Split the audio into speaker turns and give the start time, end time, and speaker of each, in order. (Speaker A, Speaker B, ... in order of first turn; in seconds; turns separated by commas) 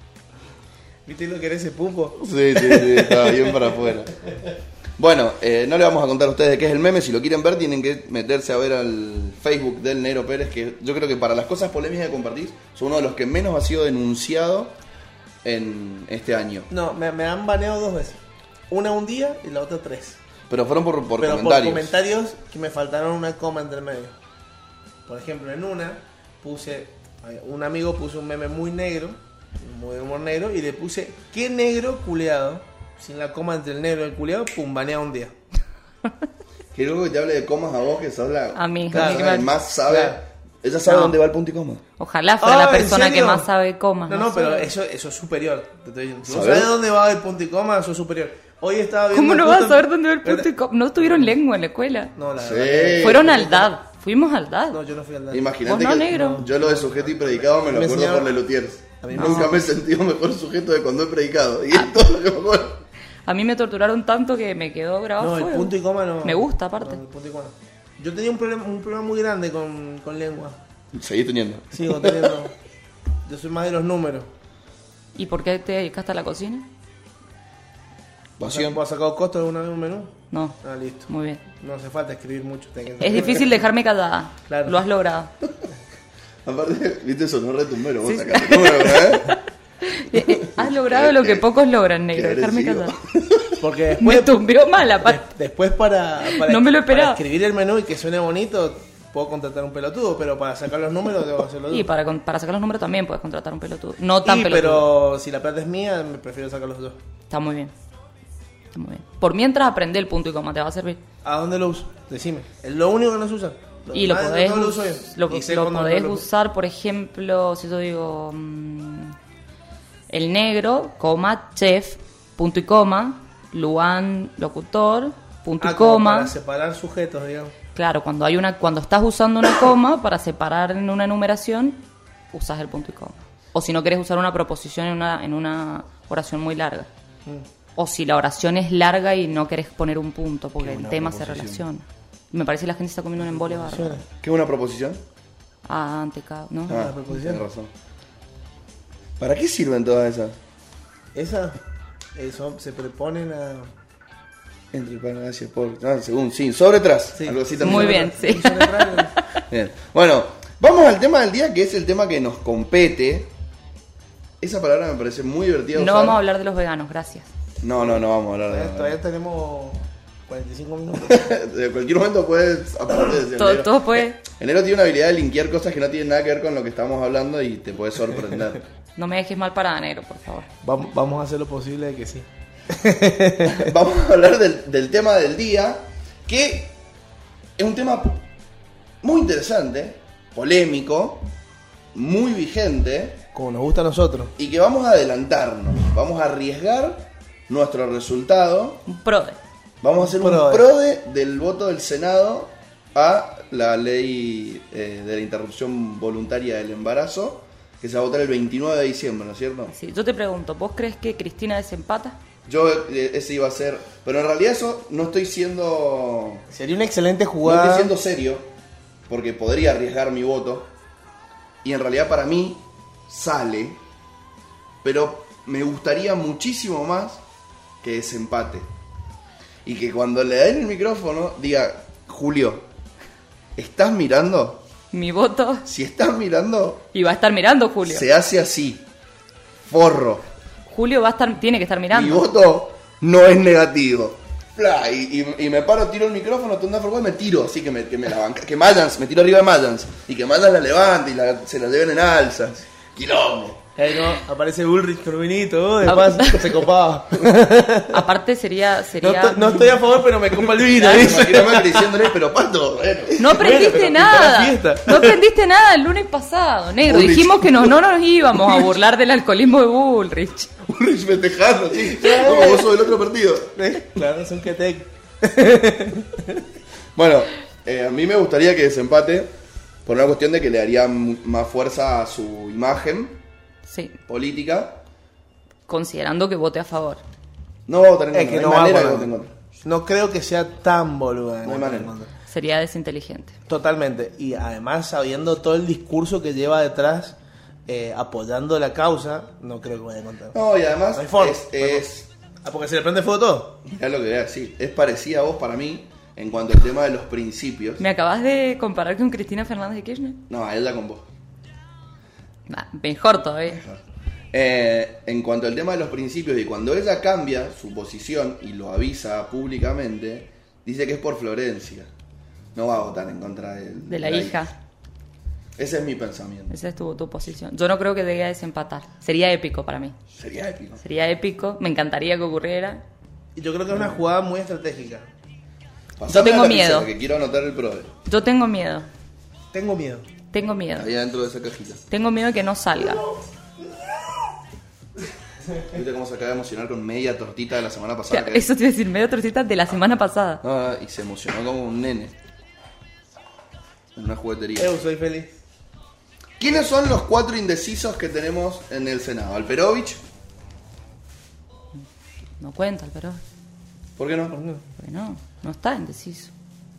Speaker A: 1.1-3.7, Speaker B: 2.2-4.2, Speaker B: 5.0-14.8, Speaker B: 15.4-16.7, Speaker A: 16.7-18.2, Speaker A: 18.7-20.2, Speaker B: 20.5-21.9, Speaker A: 21.2-24.1, Speaker A: 25.1-35.3, Speaker B: 36.7-41.8, Speaker C: 38.5-39.5, Speaker A: 38.9-40.2, Speaker C: 40.9-41.1, Speaker C: 42.0-44.7, Speaker A: 42.4-43.5, Speaker A: 44.1-50.5, Speaker B: 46.2-46.7, Speaker C: 49.1-52.1, Speaker A: 52.1-53.7, Speaker B: 52.4-53.5, Speaker C: 53.0-54.8, Speaker A: 54.7-58.4, Speaker B: 55.3-62.8, Speaker C: 55.6-56.4, Speaker A: 59.0-59.6, Speaker C: 59.1-59.6, Speaker C: 63.2-67.0, Speaker A: 65.2-70.6, Speaker B: 70.9-72.4, Speaker A: 71.7-72.5, Speaker A: 73.2-74.3, Speaker C: 75.1-76.7, Speaker B: 78.4-78.8, Speaker A: 78.4-81.1, Speaker C: 80.3-80.6, Speaker C: 81.1-81.4, Speaker A: 81.6-83.6, Speaker C: 83.0-85.3, Speaker A: 84.5-84.8, Speaker B: 86.4-89.4, Speaker C: 88.0-92.9, Speaker B: 90.1-91.5, Speaker B: 92.1-93.6, Speaker A: 93.6-94.4, Speaker C: 94.0-95.2, Speaker A: 95.0-101.9, Speaker C: 96.2-97.2, Speaker C: 101.7-104.9, Speaker A: 104.2-107.0, Speaker C: 107.3-107.7, Speaker C: 108.7-111.0, Speaker A: 111.2-116.2, Speaker C: 113.9-119.2, Speaker C: 120.1-126.3, Speaker A: 125.6-127.5, Speaker C: 127.8-136.9, Speaker C: 137.8-144.0, Speaker B: 140.6-141.7, Speaker A: 143.2-144.1, Speaker B: 144.2-145.0, Speaker C: 145.7-146.9, Speaker A: 146.7-147.4, Speaker B: 146.7-147.7, Speaker B: 149.2-150.4, Speaker A: 151.1-151.6, Speaker A: 152.1-153.7, Speaker B: 154.7-158.1, Speaker A: 157.2-159.2, Speaker C: 157.6-159.4, Speaker B: 159.5-163.3, Speaker B: 164.4-166.2, Speaker C: 165.7-167.3, Speaker B: 167.6-169.0, Speaker A: 167.8-171.2, Speaker B: 170.9-178.7, Speaker C: 172.9-174.2, Speaker C: 178.9-180.5, Speaker A: 180.6-183.6, Speaker B: 183.4-186.8, Speaker B: 187.6-188.2, Speaker B: 189.0-191.3, Speaker B: 191.9-193.2, Speaker A: 193.3-194.3, Speaker B: 194.4-198.8, Speaker C: 198.8-199.4, Speaker B: 199.8-209.7, Speaker A: 200.0-200.7, Speaker C: 209.7-212.2, Speaker B: 212.4-216.4, Speaker A: 216.5-217.9, Speaker B: 217.4-218.5, Speaker B: 219.1-220.7, Speaker B: 221.6-223.8, Speaker B: 224.8-227.2, Speaker B: 227.8-228.7, Speaker B: 229.6-232.7, Speaker B: 233.6-234.6, Speaker C: 234.9-235.7, Speaker B: 235.7-236.9, Speaker C: 236.9-238.1, Speaker B: 237.8-238.8, Speaker B: 239.7-240.2, Speaker C: 240.7-242.3, Speaker B: 241.9-253.7, Speaker A: 253.8-258.0, Speaker C: 255.8-256.6, Speaker C: 257.9-260.0, Speaker A: 259.0-262.0, Speaker C: 260.5-261.1, Speaker B: 260.8-263.7, Speaker C: 263.2-270.5, Speaker A: 263.2-265.2, Speaker B: 266.8-267.8, Speaker B: 270.6-273.6, Speaker A: 271.9-272.7, Speaker A: 273.6-276.4, Speaker B: 276.9-279.3, Speaker B: 279.8-283.2, Speaker C: 283.6-284.0, Speaker B: 284.1-284.8, Speaker C: 285.7-287.0, Speaker B: 287.7-289.3, Speaker A: 288.1-289.1, Speaker A: 289.6-292.1, Speaker B: 291.4-291.9, Speaker C: 292.3-293.3, Speaker A: 293.5-297.1, Speaker A: 297.7-300.4, Speaker B: 300.3-302.1, Speaker A: 300.9-301.9, Speaker A: 302.4-303.6, Speaker B: 303.6-307.8, Speaker C: 307.8-310.2, Speaker B: 310.3-311.1, Speaker C: 312.5-313.6, Speaker B: 313.5-321.9, Speaker B: 322.5-324.4, Speaker C: 323.9-324.5, Speaker B: 325.6-326.5, Speaker C: 326.5-329.9, Speaker B: 330.1-330.8, Speaker C: 330.8-332.8, Speaker A: 333.4-335.1, Speaker B: 336.0-337.9, Speaker C: 336.1-336.9, Speaker C: 338.0-338.9, Speaker A: 339.5-340.1, Speaker C: 340.3-340.9, Speaker B: 340.7-341.8, Speaker C: 341.9-343.1, Speaker B: 345.7-348.5, Speaker C: 348.1-350.4, Speaker B: 350.4-352.1, Speaker B: 353.9-354.7, Speaker A: 354.6-355.4, Speaker B: 356.4-360.0, Speaker C: 362.4-363.2, Speaker B: 364.0-364.4, Speaker A: 364.3-364.6, Speaker C: 364.8-366.3